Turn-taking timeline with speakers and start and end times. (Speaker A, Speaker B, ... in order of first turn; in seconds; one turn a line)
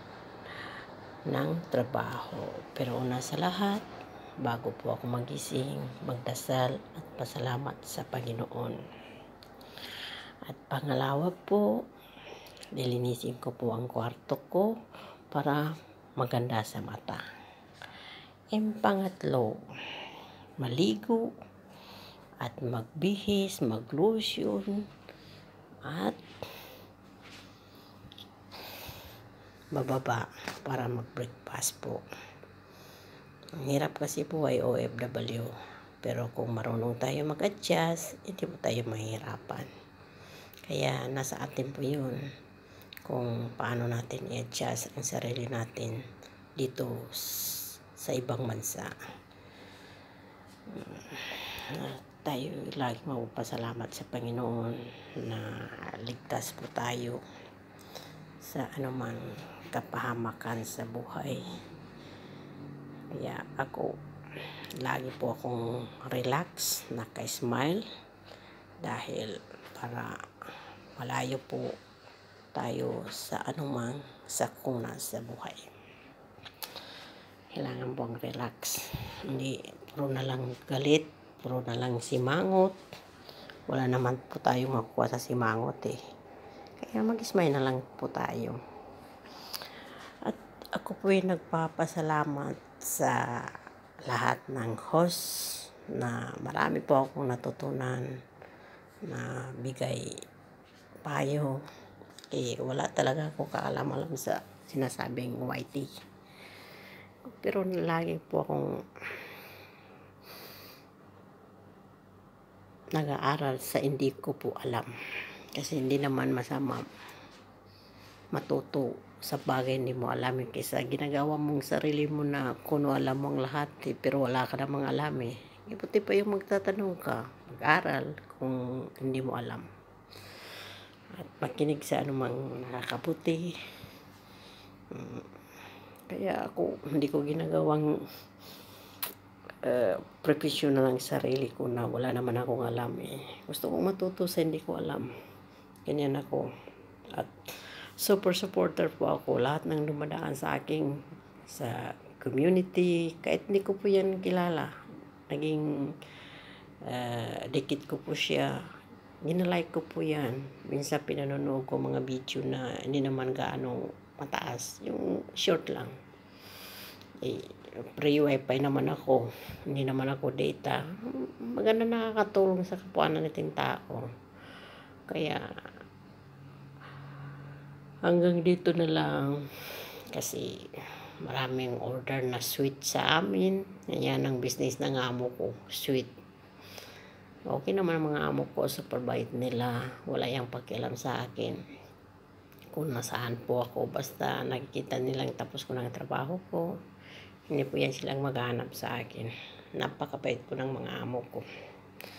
Speaker A: 1.3-3.8
Speaker A: 4.4-8.8
Speaker A: 10.5-11.6
Speaker A: 12.8-14.7
Speaker A: 15.3-15.6
Speaker A: 16.2-17.2
Speaker A: 18.5-19.6
Speaker A: 20.6-21.2
Speaker A: 22.4-24.8
Speaker A: 25.8-26.2
Speaker A: 29.7-32.0
Speaker A: 33.6-39.7
Speaker A: 40.7-42.2
Speaker A: 43.0-45.9
Speaker A: 46.6-48.9
Speaker A: 50.7-57.2
Speaker A: 58.4-61.4
Speaker A: 63.1-63.9
Speaker A: 64.8-67.8
Speaker A: 68.8-70.1
Speaker A: 71.0-71.7
Speaker A: 72.5-75.6
Speaker A: 77.5-82.8
Speaker A: 83.7-86.0
Speaker A: 86.8-88.6
Speaker A: 90.2-93.2
Speaker A: 94.1-98.1
Speaker A: 99.1-100.0
Speaker A: 101.0-101.6
Speaker A: 102.3-105.9
Speaker A: 107.3-108.7
Speaker A: 112.9-114.9
Speaker A: 115.5-116.8
Speaker A: 118.3-129.6
Speaker A: 131.2-133.4
Speaker A: 134.9-135.3
Speaker A: 136.1-137.9
Speaker A: 139.6-145.1
Speaker A: 145.9-146.5
Speaker A: 148.0-150.9
Speaker A: 151.5-154.7
Speaker A: 155.3-155.6
Speaker A: 156.8-158.5
Speaker A: 159.2-165.9
Speaker A: 167.2-170.8
Speaker A: 171.4-174.0
Speaker A: 175.1-175.4
Speaker A: 178.1-179.3
Speaker A: 180.1-180.5
Speaker A: 181.2-186.1
Speaker A: 187.5-191.6
Speaker A: 192.7-196.7
Speaker A: 197.5-201.4